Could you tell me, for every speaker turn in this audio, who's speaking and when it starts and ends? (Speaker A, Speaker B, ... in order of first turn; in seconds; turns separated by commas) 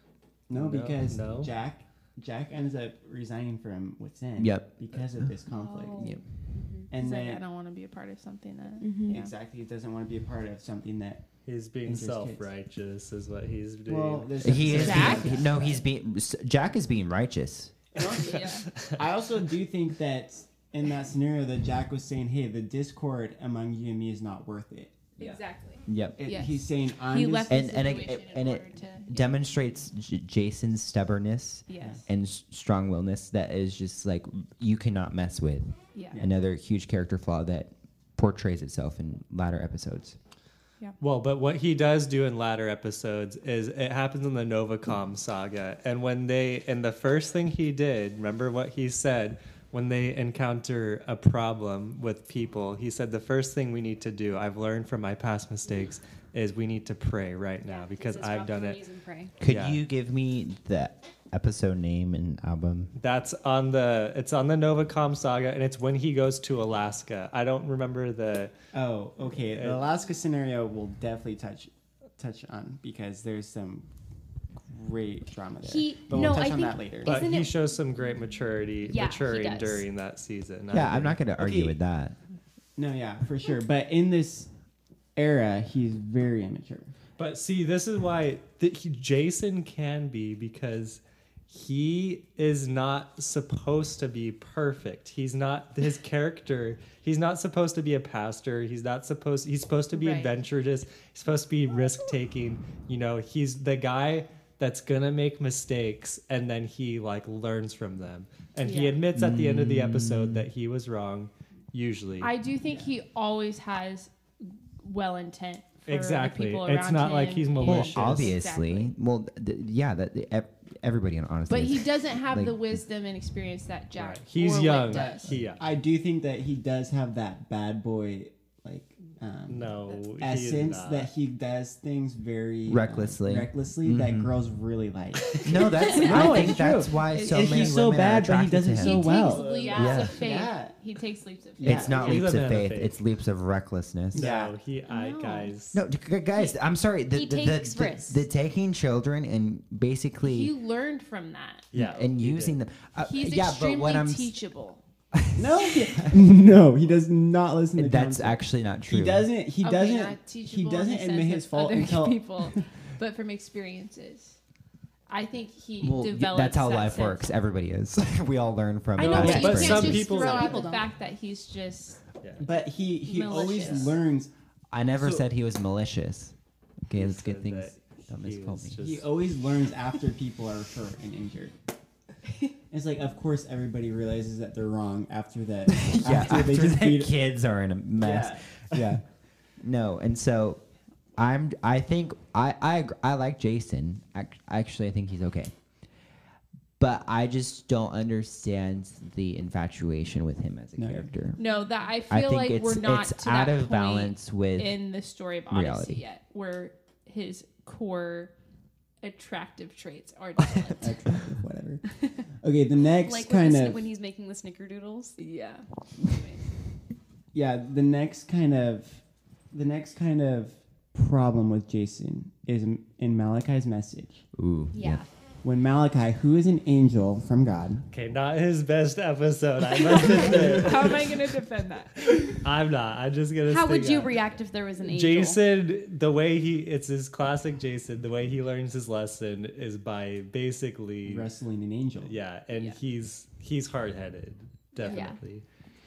Speaker A: 0.5-7.4, Speaker B: 0.5-1.5, Speaker C: 4.4-5.3, Speaker D: 5.5-6.9, Speaker C: 6.0-6.2, Speaker E: 6.9-9.3, Speaker D: 8.8-9.2, Speaker A: 9.1-12.5, Speaker B: 11.4-14.9, Speaker A: 13.8-15.8, Speaker C: 14.4-17.8, Speaker E: 14.8-15.4, Speaker A: 17.9-25.4, Speaker E: 18.2-18.7, Speaker E: 25.2-29.3, Speaker C: 25.9-26.2, Speaker A: 26.2-27.7, Speaker C: 27.5-40.2, Speaker E: 31.7-32.0, Speaker E: 35.9-36.2, Speaker B: 41.0-58.8, Speaker D: 57.6-59.3, Speaker C: 59.4-62.9, Speaker B: 59.4-59.8, Speaker B: 63.0-68.5, Speaker A: 68.7-73.9, Speaker B: 69.3-69.8, Speaker A: 74.5-77.2, Speaker D: 75.6-77.5, Speaker B: 77.0-81.2, Speaker D: 78.8-79.8, Speaker C: 80.7-82.2, Speaker A: 81.4-81.8, Speaker A: 82.8-84.5, Speaker A: 85.1-86.9, Speaker B: 87.2-112.3, Speaker E: 99.9-100.3, Speaker E: 108.6-109.0, Speaker C: 109.1-110.5, Speaker E: 112.2-118.9, Speaker A: 112.7-112.9, Speaker B: 115.9-118.4, Speaker C: 117.6-122.8, Speaker E: 121.5-125.3, Speaker B: 124.0-125.7, Speaker A: 124.9-140.8, Speaker B: 129.5-131.1, Speaker C: 132.7-134.3, Speaker C: 135.4-140.2, Speaker D: 135.9-136.4, Speaker E: 136.1-136.4, Speaker E: 137.1-137.8, Speaker E: 138.8-142.3, Speaker D: 139.2-140.2, Speaker A: 141.6-142.2, Speaker C: 141.6-144.3, Speaker B: 141.8-143.0, Speaker A: 144.1-144.5, Speaker B: 144.1-145.8, Speaker E: 144.9-145.5, Speaker C: 145.7-150.5, Speaker D: 147.1-148.2, Speaker E: 150.2-152.0, Speaker B: 151.7-152.6, Speaker C: 151.8-154.3, Speaker E: 153.0-154.8, Speaker C: 155.1-156.2, Speaker A: 155.3-162.6, Speaker C: 157.8-159.3, Speaker E: 159.6-164.4, Speaker E: 165.1-167.3, Speaker C: 165.8-170.1, Speaker E: 168.9-172.0, Speaker A: 169.0-170.0, Speaker B: 169.1-170.6, Speaker D: 169.4-170.8, Speaker B: 172.2-172.4, Speaker A: 172.4-174.3, Speaker E: 173.0-174.0, Speaker C: 174.7-178.8, Speaker A: 175.0-175.3, Speaker B: 176.9-179.1, Speaker A: 178.8-181.6, Speaker A: 182.7-187.1, Speaker C: 185.7-190.6, Speaker A: 188.0-189.0, Speaker C: 191.2-195.6, Speaker C: 196.8-201.4, Speaker A: 200.8-201.1, Speaker E: 201.4-208.3, Speaker C: 202.1-204.8, Speaker C: 205.5-206.0, Speaker E: 209.0-211.1, Speaker A: 210.8-213.8, Speaker D: 213.0-215.2, Speaker E: 215.2-216.4, Speaker A: 217.3-224.3, Speaker C: 224.3-225.0, Speaker D: 224.7-225.1, Speaker A: 225.4-227.8, Speaker B: 227.9-231.1, Speaker E: 230.1-232.0, Speaker B: 232.3-234.2, Speaker D: 233.5-235.4, Speaker B: 234.8-241.3, Speaker A: 241.0-242.2, Speaker B: 242.0-245.4, Speaker E: 242.5-242.8, Speaker E: 244.8-245.2, Speaker D: 244.8-245.2